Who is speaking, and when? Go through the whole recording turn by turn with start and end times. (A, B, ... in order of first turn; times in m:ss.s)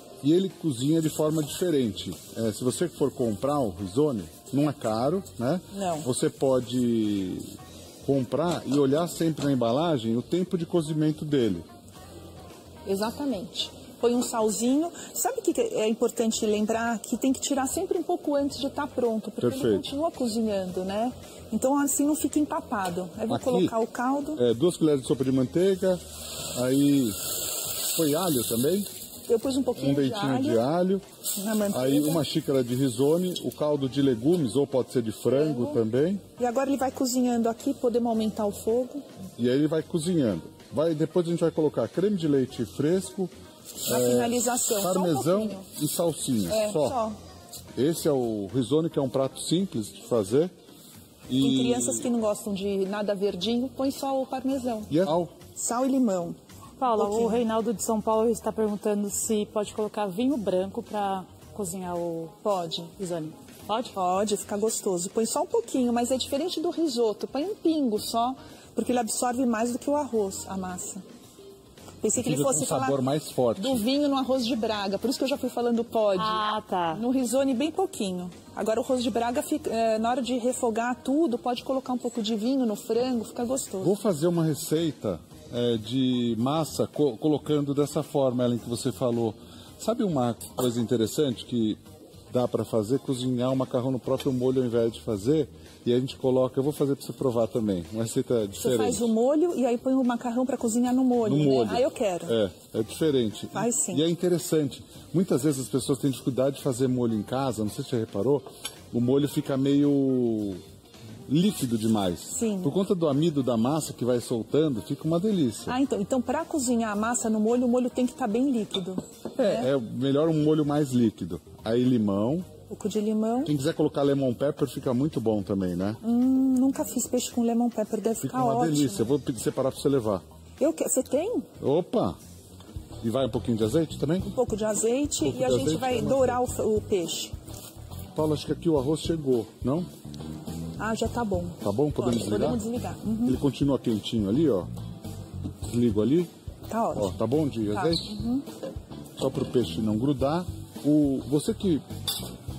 0:00.2-0:07.5 A
0:05.7-0:06.1 B
0:08.0-0:11.6 A
0:12.8-0:24.4 B
0:19.4-0:19.9 A
0:23.3-0:23.8 A
0:24.4-0:26.0 A
0:26.5-0:27.2 A
0:27.9-0:28.9 A
0:29.3-0:30.6 B
0:29.8-0:31.0 A
0:31.4-0:32.2 B
0:31.7-0:36.2 A
0:35.3-0:35.8 B
0:36.4-0:39.0 B
0:39.4-0:43.3 A
0:43.8-0:47.0 A
0:43.9-0:45.6 B
0:46.5-0:47.2 B
0:47.8-0:50.5 A
0:51.3-0:52.1 A
0:51.4-0:54.9 B
0:54.9-0:55.4 A
0:55.5-0:56.4 B
0:56.8-1:04.0 C
0:56.9-0:57.4 B
1:02.4-1:02.9 B
1:03.9-1:11.0 B
1:12.0-1:13.0 B
1:12.2-1:13.8 A
1:13.6-1:16.3 B
1:16.1-1:17.0 C
1:16.9-1:23.9 B
1:23.8-1:31.8 A
1:32.3-1:39.1 A
1:38.6-1:42.4 B
1:41.2-1:50.6 A
1:43.5-1:44.0 B
1:51.3-1:55.8 A
1:52.3-1:52.8 B
1:55.7-1:59.7 B
1:59.4-2:02.5 A
2:02.7-2:03.5 B
2:03.4-2:06.0 A
2:06.0-2:09.1 B
2:08.2-2:10.2 A
2:10.6-2:11.5 B
2:11.6-2:12.2 A
2:13.0-2:14.3 A
2:14.2-2:17.3 B
2:15.2-2:16.4 A
2:18.1-2:19.9 A
2:20.8-2:23.4 B
2:21.6-2:22.6 A
2:23.2-2:24.7 A
2:25.6-2:26.3 A
2:26.7-2:27.1 B
2:26.9-2:28.2 A
2:27.7-2:28.4 B
2:29.2-2:31.8 A